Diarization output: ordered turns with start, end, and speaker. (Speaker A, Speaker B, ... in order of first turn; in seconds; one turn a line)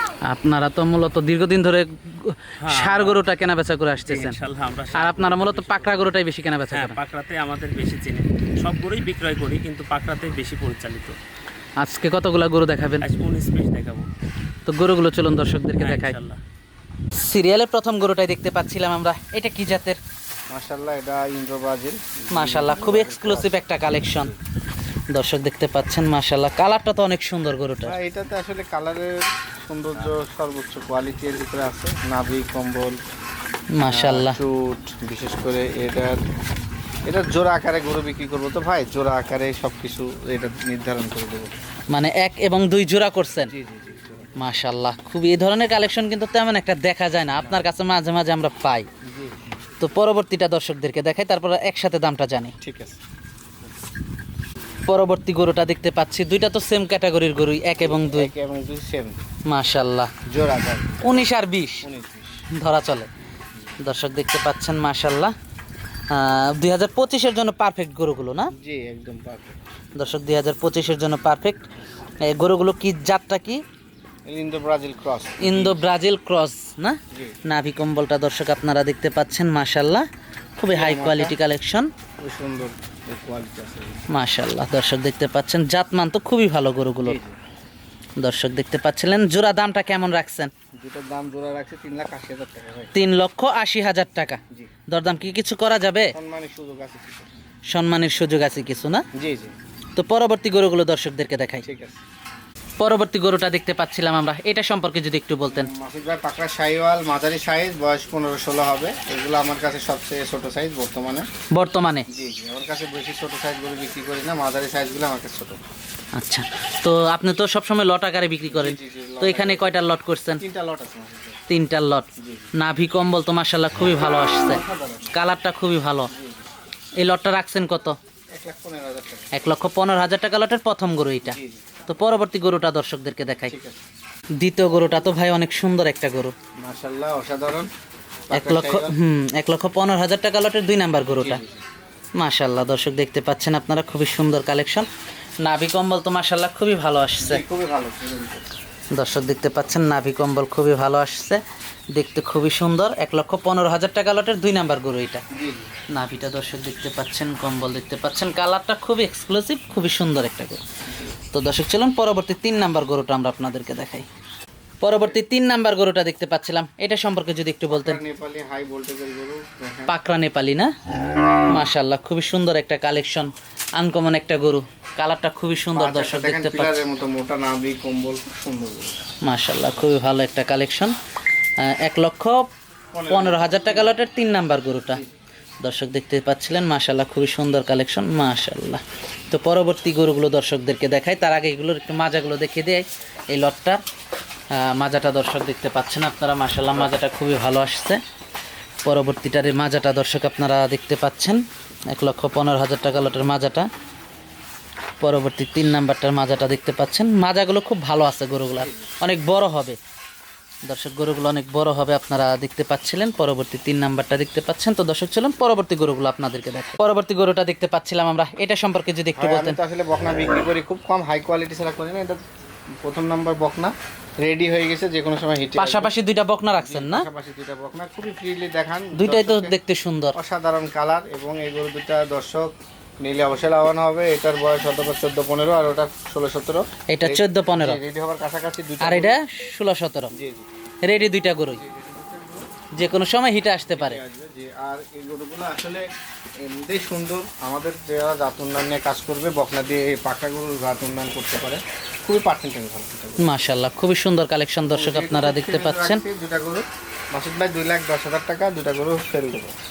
Speaker A: 0.3-4.4
Speaker B: 2.6-3.2
Speaker B: 4.1-6.2
Speaker A: 4.9-7.0
Speaker B: 6.7-11.2
Speaker A: 11.8-13.1
Speaker B: 13.0-14.1
Speaker A: 14.7-16.2
Speaker B: 15.8-16.4
Speaker A: 17.1-20.0
Speaker C: 20.5-23.6
Speaker A: 22.3-24.3
Speaker A: 25.1-27.9
Speaker C: 27.9-33.0
Speaker A: 33.8-34.4
Speaker C: 33.9-36.2
Speaker C: 37.1-41.5
Speaker A: 41.9-43.5
Speaker C: 43.5-44.3
Speaker A: 44.4-48.9
Speaker C: 49.1-49.4
Speaker A: 49.8-52.5
Speaker C: 52.6-53.0
Speaker A: 54.9-58.3
Speaker C: 57.8-59.2
Speaker A: 59.5-60.1
Speaker C: 60.3-62.4
Speaker A: 61.0-61.9
Speaker A: 62.6-63.1
Speaker A: 63.8-65.3
Speaker A: 66.1-68.5
Speaker C: 68.5-69.6
Speaker A: 70.0-71.6
Speaker A: 72.2-73.6
Speaker C: 74.3-75.8
Speaker A: 75.4-80.1
Speaker C: 77.1-77.4
Speaker A: 80.6-81.9
Speaker C: 80.7-81.4
Speaker C: 82.2-84.0
Speaker A: 84.1-87.2
Speaker C: 87.0-87.4
Speaker A: 88.2-90.5
Speaker C: 90.8-92.9
Speaker A: 92.9-94.4
Speaker A: 94.9-96.1
Speaker C: 96.1-97.3
Speaker A: 97.7-99.0
Speaker C: 99.2-99.5
Speaker A: 100.0-101.7
Speaker C: 101.6-102.0
Speaker A: 102.8-105.7
Speaker C: 105.5-111.3
Speaker A: 111.5-112.1
Speaker C: 112.1-115.6
Speaker A: 116.2-120.4
Speaker C: 118.5-119.7
Speaker C: 120.4-121.4
Speaker A: 121.5-126.1
Speaker C: 122.2-122.5
Speaker C: 124.4-125.1
Speaker C: 126.1-126.4
Speaker A: 127.0-128.0
Speaker C: 128.3-129.3
Speaker A: 129.3-133.6
Speaker C: 131.2-131.7
Speaker C: 133.5-133.8
Speaker A: 134.4-136.3
Speaker C: 136.6-137.7
Speaker C: 138.3-139.0
Speaker A: 138.3-141.4
Speaker C: 141.1-141.6
Speaker A: 142.2-144.9
Speaker A: 145.4-147.4
Speaker C: 147.2-148.5
Speaker A: 148.9-151.4
Speaker A: 151.9-155.2
Speaker C: 155.3-155.7
Speaker A: 155.9-160.6
Speaker A: 161.3-164.1
Speaker A: 164.8-168.0
Speaker C: 167.7-169.9
Speaker A: 169.9-170.7
Speaker A: 171.5-176.8
Speaker C: 175.7-179.0
Speaker A: 179.2-180.9
Speaker A: 181.6-182.5
Speaker C: 182.9-184.0
Speaker A: 183.1-185.0
Speaker A: 185.6-193.8
Speaker A: 194.6-198.0
Speaker A: 198.8-203.7
Speaker A: 205.0-209.8
Speaker A: 210.7-219.6
Speaker C: 219.2-222.2
Speaker C: 222.8-225.9
Speaker A: 225.6-227.1
Speaker C: 226.6-229.6
Speaker A: 228.9-230.2
Speaker C: 230.2-239.2
Speaker A: 236.9-237.8
Speaker A: 238.8-240.1
Speaker C: 240.1-240.5
Speaker A: 240.8-241.6
Speaker C: 241.6-242.5
Speaker A: 242.7-244.0
Speaker C: 243.7-245.9
Speaker C: 246.4-253.3
Speaker A: 253.2-256.0
Speaker C: 254.7-259.6